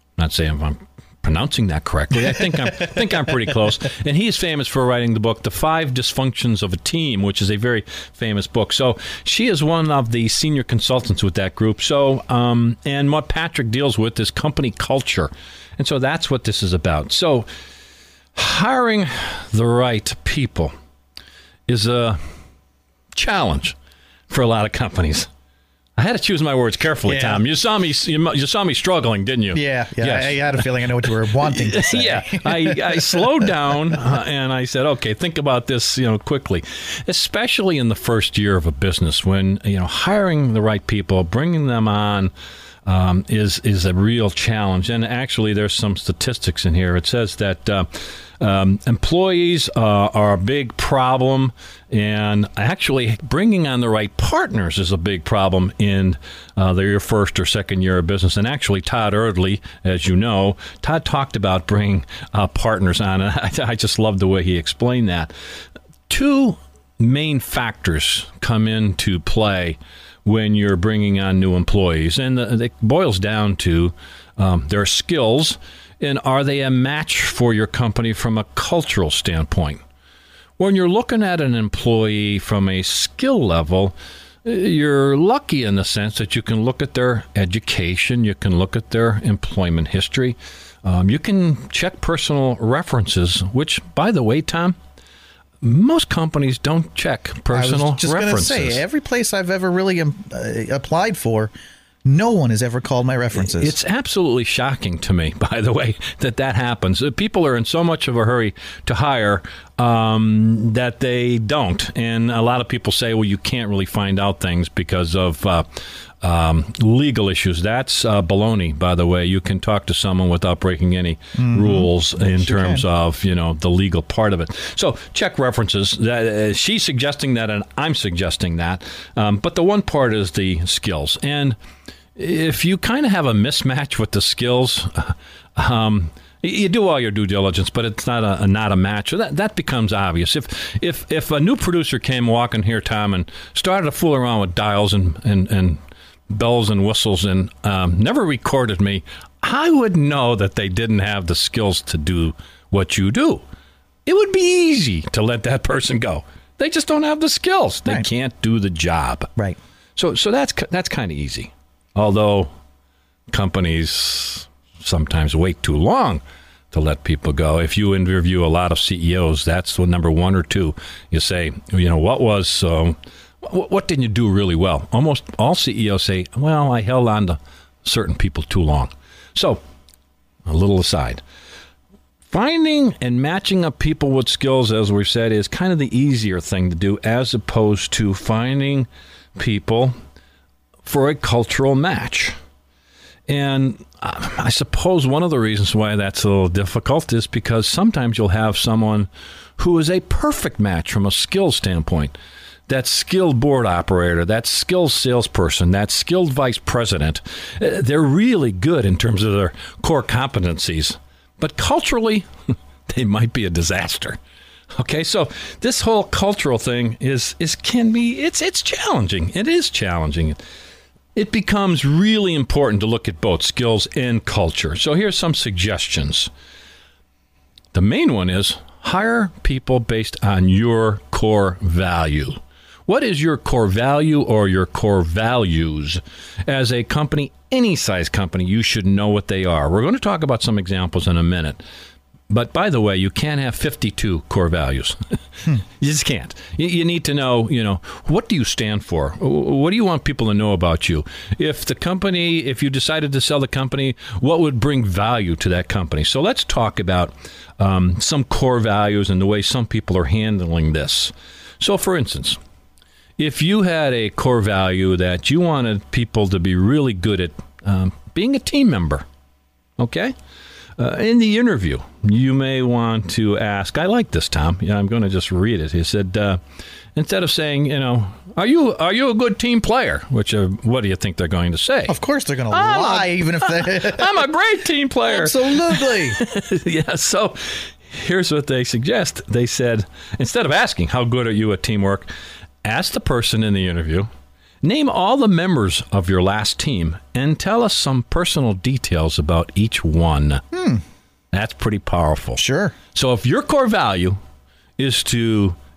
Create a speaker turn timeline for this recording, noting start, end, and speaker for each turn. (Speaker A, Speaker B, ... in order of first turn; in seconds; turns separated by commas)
Speaker A: 0.2-17.5, Speaker A: 18.4-20.7, Speaker A: 21.7-22.2, Speaker A: 23.1-23.8, Speaker A: 24.3-25.3, Speaker A: 26.0-42.3, Speaker B: 27.1-27.4, Speaker B: 29.5-33.5, Speaker A: 42.9-65.3, Speaker A: 66.1-79.8, Speaker A: 80.6-94.8, Speaker A: 95.6-98.8, Speaker B: 97.5-101.5, Speaker B: 102.1-103.8, Speaker A: 103.3-131.6, Speaker B: 121.4-122.8, Speaker A: 132.2-153.4, Speaker A: 154.1-159.3, Speaker A: 160.0-162.5, Speaker A: 163.3-179.6, Speaker A: 180.5-181.2, Speaker A: 182.3-189.9, Speaker A: 190.8-192.4, Speaker A: 193.3-202.2, Speaker A: 202.7-212.3, Speaker A: 212.9-214.2, Speaker A: 214.7-220.4, Speaker A: 221.2-226.3, Speaker A: 227.7-241.6, Speaker A: 242.3-262.4, Speaker A: 263.2-269.1, Speaker A: 269.8-270.1, Speaker A: 270.8-276.4, Speaker A: 277.0-282.0, Speaker B: 281.9-284.3, Speaker A: 282.5-292.1, Speaker B: 285.1-286.2, Speaker A: 292.6-294.1, Speaker A: 294.6-300.4, Speaker B: 300.5-300.8, Speaker A: 301.3-302.4, Speaker B: 302.4-302.8, Speaker A: 302.9-304.2, Speaker A: 304.8-305.6